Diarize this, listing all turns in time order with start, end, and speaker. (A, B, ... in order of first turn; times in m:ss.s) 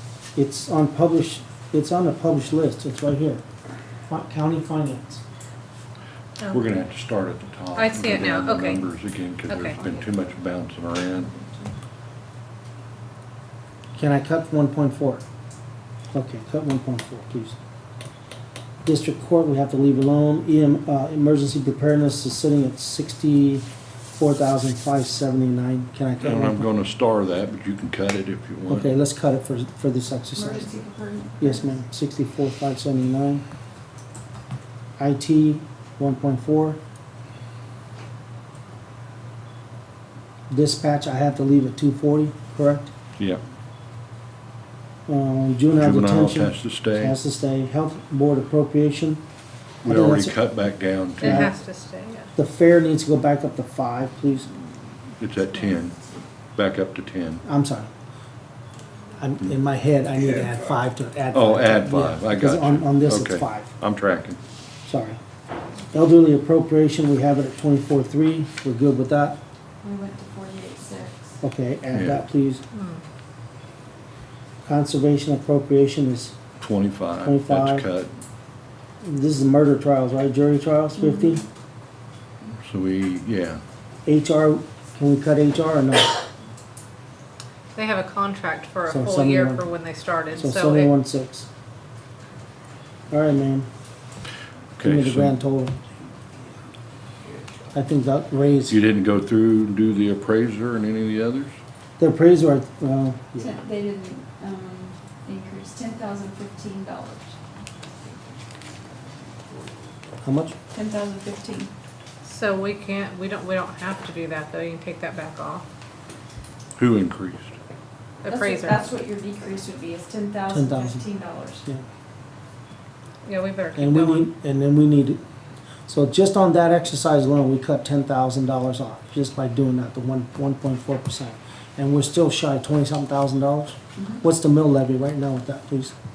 0:00.3-0:03.4 A
0:04.1-0:05.2 A
0:06.4-0:06.6 B
0:06.5-0:11.3 C
0:07.7-0:08.8 B
0:09.5-0:09.8 B
0:09.8-0:10.3 D
0:11.3-0:11.7 D
0:13.9-0:15.2 A
0:16.1-0:17.6 A
0:18.8-0:26.7 A
0:26.2-0:28.9 C
0:28.7-0:30.7 A
0:30.3-0:31.8 D
0:31.4-0:33.4 A
0:35.0-0:36.8 A
0:40.5-0:42.9 A
0:45.1-0:49.2 A
0:45.7-0:47.2 C
0:49.8-0:50.3 A
0:49.8-0:51.5 C
0:51.2-0:52.3 B
0:51.2-0:51.5 A
0:52.4-0:54.5 A
0:55.2-0:56.0 C
0:56.6-0:57.4 C
0:57.4-0:57.9 A
0:59.2-1:03.7 A
1:01.3-1:04.4 C
1:04.8-1:05.2 A
1:05.9-1:09.4 A
1:09.8-1:11.4 D
1:11.4-1:12.6 A
1:11.9-1:12.2 C
1:12.7-1:13.0 B
1:14.6-1:16.4 A
1:16.6-1:18.1 C
1:17.2-1:17.8 A
1:19.0-1:21.4 A
1:20.9-1:21.4 D
1:22.6-1:23.6 C
1:24.0-1:26.2 A
1:27.7-1:30.9 B
1:28.9-1:29.7 A
1:30.4-1:31.5 A
1:33.1-1:33.7 A
1:34.8-1:35.3 C
1:34.8-1:35.7 A
1:37.2-1:37.7 D
1:37.7-1:38.8 A
1:38.7-1:41.5 C
1:42.0-1:43.5 A
1:43.4-1:47.4 D
1:48.0-1:48.5 D
1:50.2-1:50.5 A
1:50.7-1:51.7 D
1:52.2-1:55.6 B
1:56.8-1:57.6 C
1:58.2-1:58.8 B
1:58.2-2:01.6 D
2:00.5-2:01.0 A
2:03.2-2:04.3 B
2:03.8-2:05.2 A
2:05.9-2:15.9 A
2:14.0-2:14.2 D